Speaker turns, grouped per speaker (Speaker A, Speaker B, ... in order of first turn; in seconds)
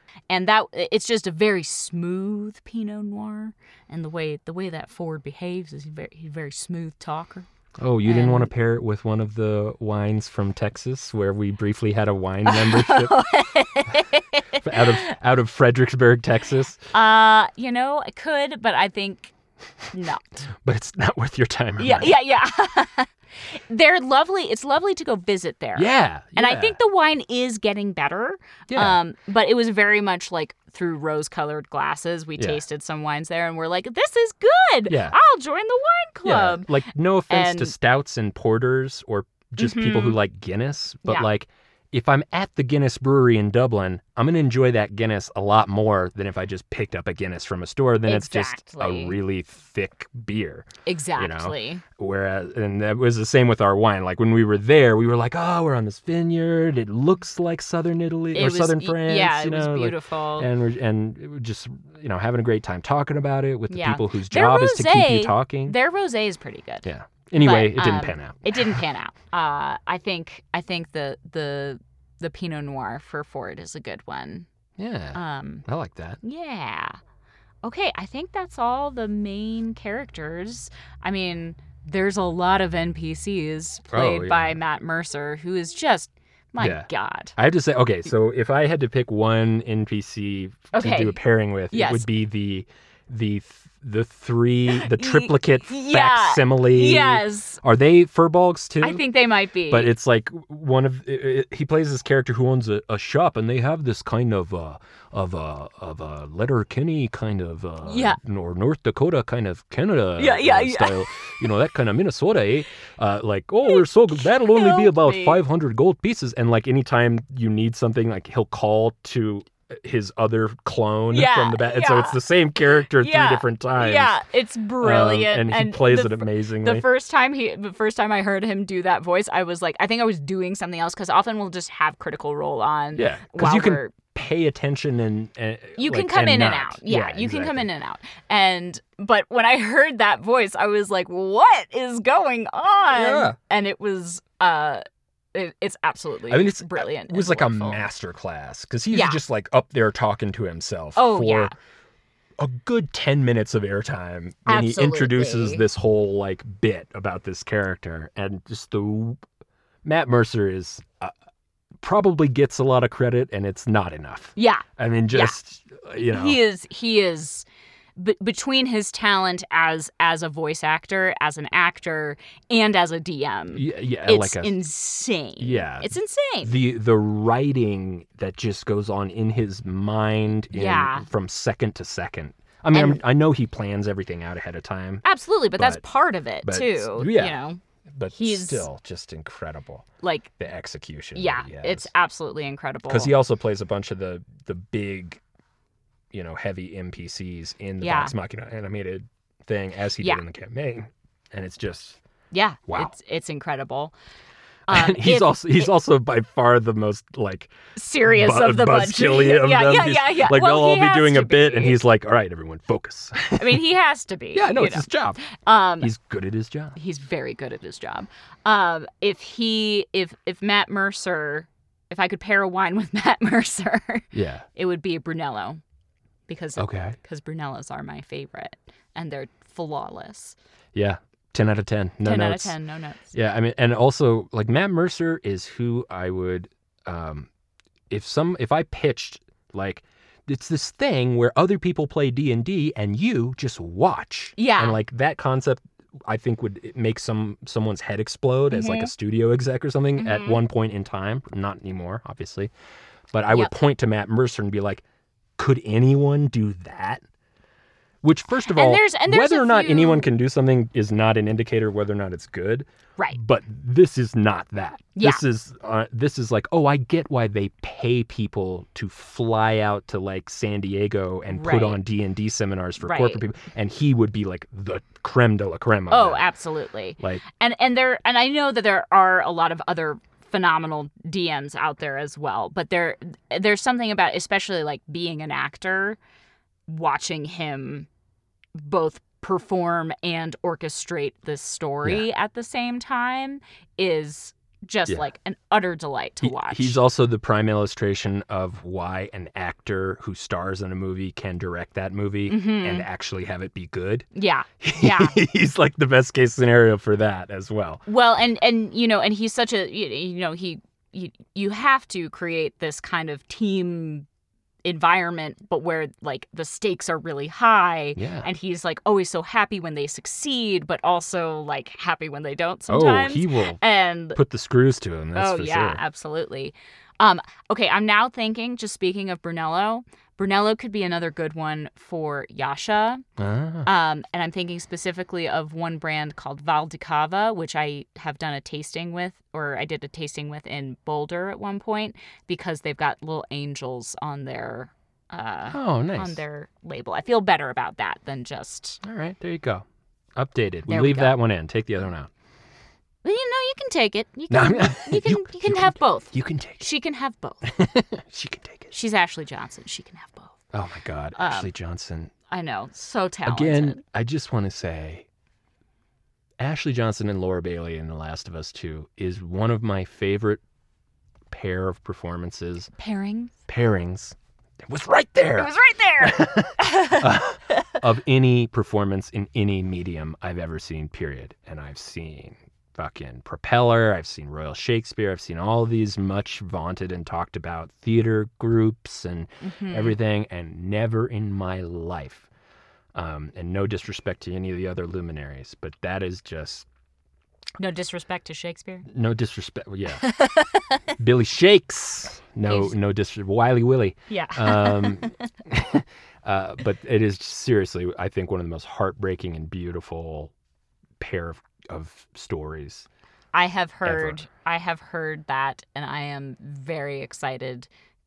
Speaker A: 0.3-7.5, 8.1-8.5, 12.5-15.1, 16.9-19.3, 19.9-20.4, 21.8-37.7, 39.6-40.2, 48.1-49.2, 50.9-51.8, 58.3-60.5, 63.7-66.9, 67.4-74.5, 75.2-75.6, 76.2-77.0, 77.6-87.4, 90.7-91.2, 91.7-92.1, 94.7-97.6, 98.8-99.9, 107.8-108.2, 110.2-111.3, 113.7-115.4, 121.1-122.2, 122.9-133.9, 135.8-144.8, 145.3-147.8, 148.9-149.2, 151.0-151.5, 154.5-155.6, 164.4-165.3, 166.0-167.5, 168.0-176.5, 180.5-181.1, 182.7-183.0, 185.0-187.6, 188.1-188.7, 190.0-190.3, 191.2-193.1, 197.8-198.1, 202.3-203.9, 204.7-205.7, 207.8-211.8, 213.4-215.9, 216.8-225.6, 226.3-230.4, 232.0-233.1, 244.4-244.8, 248.5-248.9, 250.0-250.4, 258.5-260.1, 265.0-265.2, 271.3-271.8, 272.8-273.2, 275.9-286.0, 286.7-287.9, 288.6-296.8, 302.3-302.9, 304.1-305.2, 307.9-314.1, 314.6-324.2, 325.1-333.0, 333.6-348.8, 350.7-351.2, 353.0-357.5, 358.7-360.4, 361.2-361.5, 362.3-363.8, 372.8-373.3, 375.4-377.7, 389.4-390.0, 397.6-398.9, 400.0-400.8, 402.5-402.7, 404.1-405.2, 413.3-417.7
Speaker B: 7.8-13.2, 14.6-16.8, 20.6-22.2, 25.8-26.8, 28.7-29.0, 34.9-35.2, 36.2-65.8, 66.8-68.8, 74.8-76.2, 83.9-84.6, 86.6-99.0, 99.7-124.2, 124.8-126.9, 132.9-137.7, 142.9-143.4, 146.3-151.5, 152.4-159.2, 159.8-161.1, 161.8-166.4, 173.5-174.6, 175.4-175.9, 176.4-185.1, 186.4-187.4, 187.9-191.9, 192.9-195.2, 196.1-202.0, 202.7-202.9, 204.7-213.7, 214.3-215.2, 215.8-216.8, 224.1-224.5, 226.6-227.0, 230.7-232.6, 233.1-237.3, 237.9-252.5, 253.1-254.8, 255.4-257.0, 258.0-276.2, 296.2-304.1, 304.6-307.8, 318.0-318.3, 322.7-323.6, 324.1-325.8, 333.2-333.7, 345.5-346.2, 348.8-349.6, 350.2-352.1, 354.3-356.7, 357.4-358.7, 360.5-362.1, 363.3-365.1, 366.4-370.4, 371.3-372.7, 373.5-392.3, 392.9-396.7, 398.9-400.1, 401.0-410.3, 411.0-412.9, 413.9-414.2